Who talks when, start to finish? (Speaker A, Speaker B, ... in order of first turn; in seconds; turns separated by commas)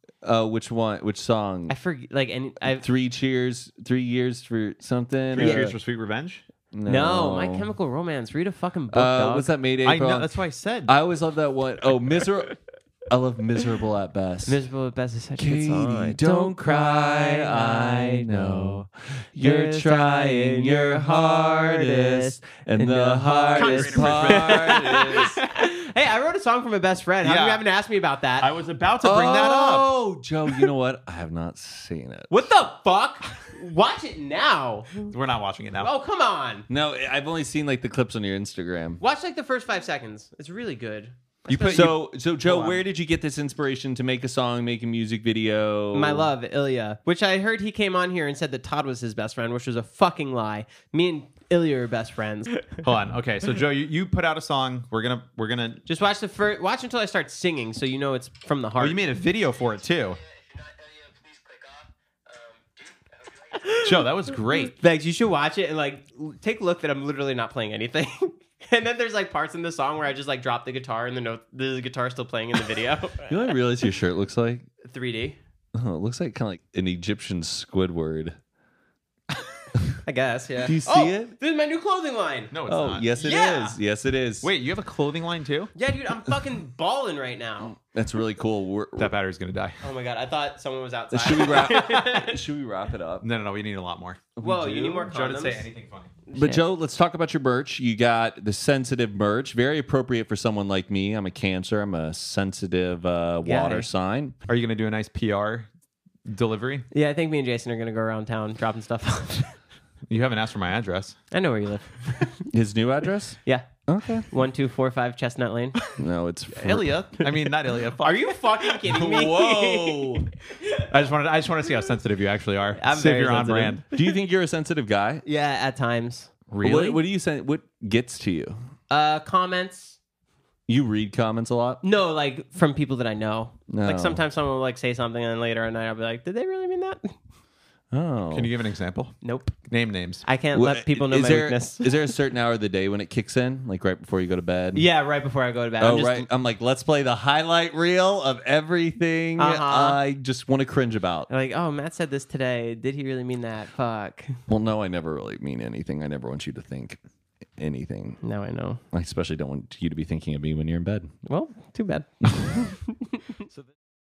Speaker A: 0.2-1.7, Speaker B: 1.7-2.8, Speaker A: 2.7-5.8, Speaker C: 5.3-6.4, Speaker A: 6.7-7.7, Speaker B: 6.9-9.5, Speaker A: 8.9-10.3, Speaker C: 9.8-10.9, Speaker A: 10.9-12.6, Speaker A: 13.1-14.6, Speaker B: 14.5-18.7, Speaker A: 15.4-25.4, Speaker B: 19.4-28.5, Speaker C: 23.5-25.4, Speaker C: 27.2-27.6, Speaker C: 28.4-30.0, Speaker A: 29.0-32.5, Speaker B: 32.3-35.0, Speaker C: 35.0-35.9, Speaker B: 35.8-36.7, Speaker A: 36.7-39.0, Speaker B: 39.0-41.9, Speaker C: 41.5-42.8, Speaker A: 41.7-46.3, Speaker B: 45.9-52.8, Speaker C: 52.8-55.8, Speaker B: 55.9-59.0, Speaker C: 58.8-60.2, Speaker C: 63.8-64.8, Speaker B: 64.8-73.4, Speaker A: 73.3-74.7, Speaker B: 74.8-75.4, Speaker A: 75.7-78.4, Speaker B: 80.0-82.5, Speaker A: 80.6-81.3, Speaker C: 82.5-83.1, Speaker A: 82.7-84.5, Speaker B: 83.2-83.8, Speaker C: 84.4-85.7, Speaker B: 85.8-87.8, Speaker A: 87.7-89.1, Speaker C: 89.0-89.8, Speaker B: 89.8-92.4, Speaker A: 91.1-93.2, Speaker C: 93.2-96.1, Speaker B: 94.4-95.7, Speaker B: 96.3-96.6, Speaker A: 96.4-104.3, Speaker B: 103.4-103.9, Speaker C: 104.5-105.7, Speaker C: 106.3-106.9, Speaker B: 106.9-109.6, Speaker C: 110.1-111.2, Speaker B: 111.3-112.5, Speaker A: 112.5-114.3, Speaker B: 113.4-113.7, Speaker B: 114.2-115.8, Speaker A: 116.0-117.0, Speaker C: 116.5-118.8, Speaker B: 118.0-120.9, Speaker A: 118.8-120.3, Speaker C: 120.8-123.9, Speaker B: 122.8-123.8, Speaker A: 123.9-125.2, Speaker B: 125.2-126.3, Speaker C: 126.5-127.0, Speaker A: 126.6-128.6, Speaker B: 128.9-130.0, Speaker A: 130.7-131.8, Speaker B: 131.8-137.2, Speaker A: 133.7-134.2, Speaker A: 137.9-138.5, Speaker C: 138.3-140.3, Speaker B: 139.2-139.6, Speaker B: 140.2-141.9, Speaker A: 140.5-144.9, Speaker B: 144.8-146.3, Speaker A: 145.8-151.3, Speaker B: 149.4-150.0, Speaker B: 151.3-154.4, Speaker A: 154.5-157.0, Speaker A: 157.6-158.2, Speaker B: 158.2-158.8, Speaker A: 158.9-161.1, Speaker B: 161.3-163.2